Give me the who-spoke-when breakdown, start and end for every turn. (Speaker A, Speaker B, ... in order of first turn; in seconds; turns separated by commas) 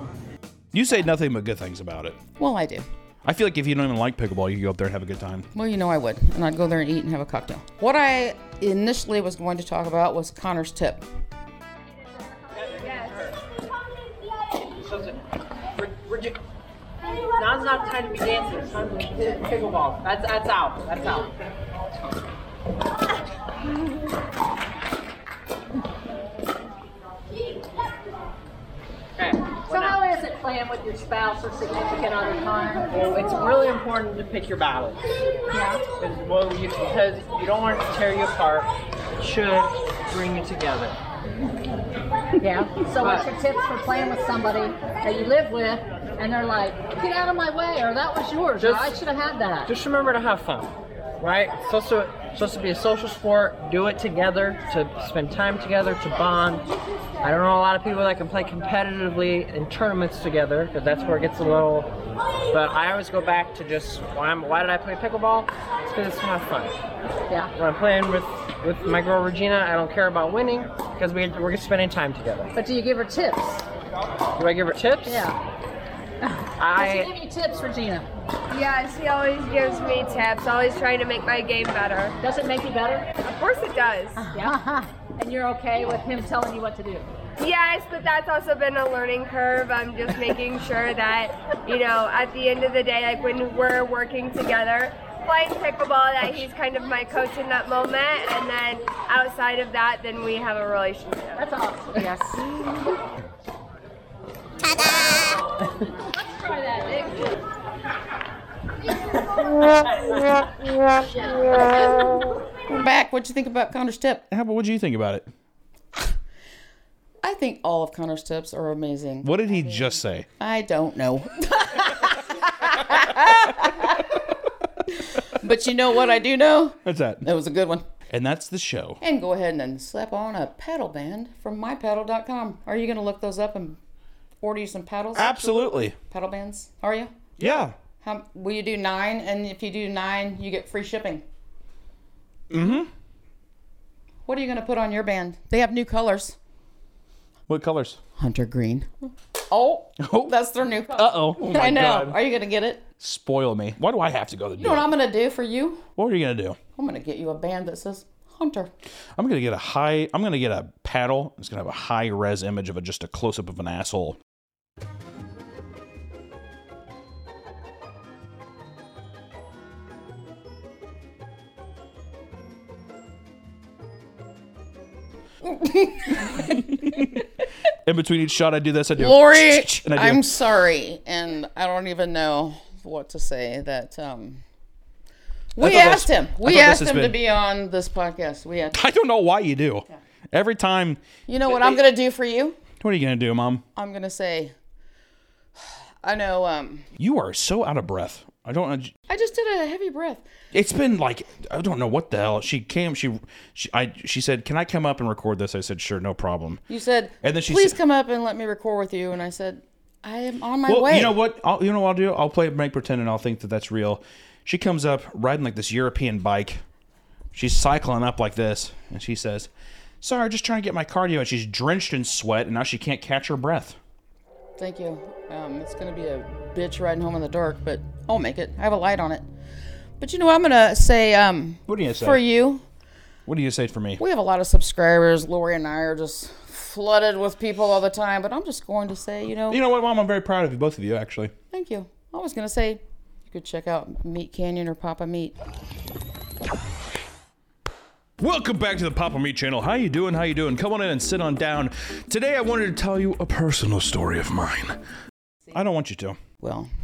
Speaker A: 0.7-2.2, Speaker B: 2.4-2.9, Speaker A: 3.2-5.5, Speaker B: 5.5-11.0, Speaker C: 12.5-13.3, Speaker D: 12.8-13.1, Speaker C: 14.8-15.2, Speaker C: 15.8-16.4, Speaker C: 17.3-21.3, Speaker C: 29.2-30.0, Speaker E: 29.7-32.9, Speaker C: 32.9-35.1, Speaker E: 35.5-35.8, Speaker C: 36.0-41.0, Speaker E: 42.4-49.7, Speaker C: 43.0-43.3, Speaker C: 48.6-49.0, Speaker C: 49.7-56.7, Speaker C: 57.2-61.9, Speaker C: 62.5-66.8, Speaker C: 67.5-72.5, Speaker E: 72.5-73.6, Speaker C: 74.4-75.3, Speaker E: 75.0-75.3, Speaker C: 76.6-77.1, Speaker E: 76.7-78.1, Speaker D: 78.5-82.2, Speaker E: 82.2-83.1, Speaker D: 83.2-84.3, Speaker E: 84.2-87.1, Speaker D: 87.4-101.4, Speaker E: 101.3-102.4, Speaker E: 106.1-107.4, Speaker B: 112.7-114.2, Speaker A: 114.3-115.3, Speaker B: 117.2-124.2, Speaker A: 119.2-120.3, Speaker B: 124.9-127.9, Speaker A: 126.8-127.3, Speaker A: 128.1-129.0, Speaker B: 129.0-133.8, Speaker B: 134.4-137.5, Speaker A: 135.1-135.9, Speaker A: 137.4-137.7, Speaker B: 138.0-141.2, Speaker A: 142.5-142.9, Speaker B: 144.2-146.4, Speaker A: 147.5-148.0, Speaker B: 148.2-148.9, Speaker B: 149.5-152.8, Speaker A: 150.0-150.3, Speaker A: 150.9-152.2, Speaker A: 153.0-154.9, Speaker B: 154.6-155.8, Speaker A: 155.9-156.6, Speaker B: 156.8-158.7, Speaker A: 159.2-164.2, Speaker B: 175.4-177.2, Speaker A: 176.5-177.2, Speaker A: 177.8-180.2, Speaker B: 178.9-184.4, Speaker B: 185.6-188.8, Speaker A: 185.6-187.2, Speaker A: 188.7-191.0, Speaker B: 191.3-192.6, Speaker A: 192.8-193.6, Speaker B: 193.8-194.5, Speaker B: 196.0-196.9, Speaker A: 197.0-198.9, Speaker B: 199.1-200.2, Speaker A: 200.5-206.6, Speaker B: 206.7-211.2, Speaker A: 207.2-207.8, Speaker A: 210.7-216.6, Speaker A: 217.3-219.5, Speaker A: 220.0-223.8, Speaker B: 224.6-229.2, Speaker B: 230.0-232.6, Speaker A: 231.7-232.2, Speaker A: 233.2-234.0, Speaker B: 234.0-239.6, Speaker A: 239.5-241.3, Speaker B: 241.5-245.3, Speaker A: 248.2-254.8, Speaker A: 255.5-256.2, Speaker B: 256.4-256.7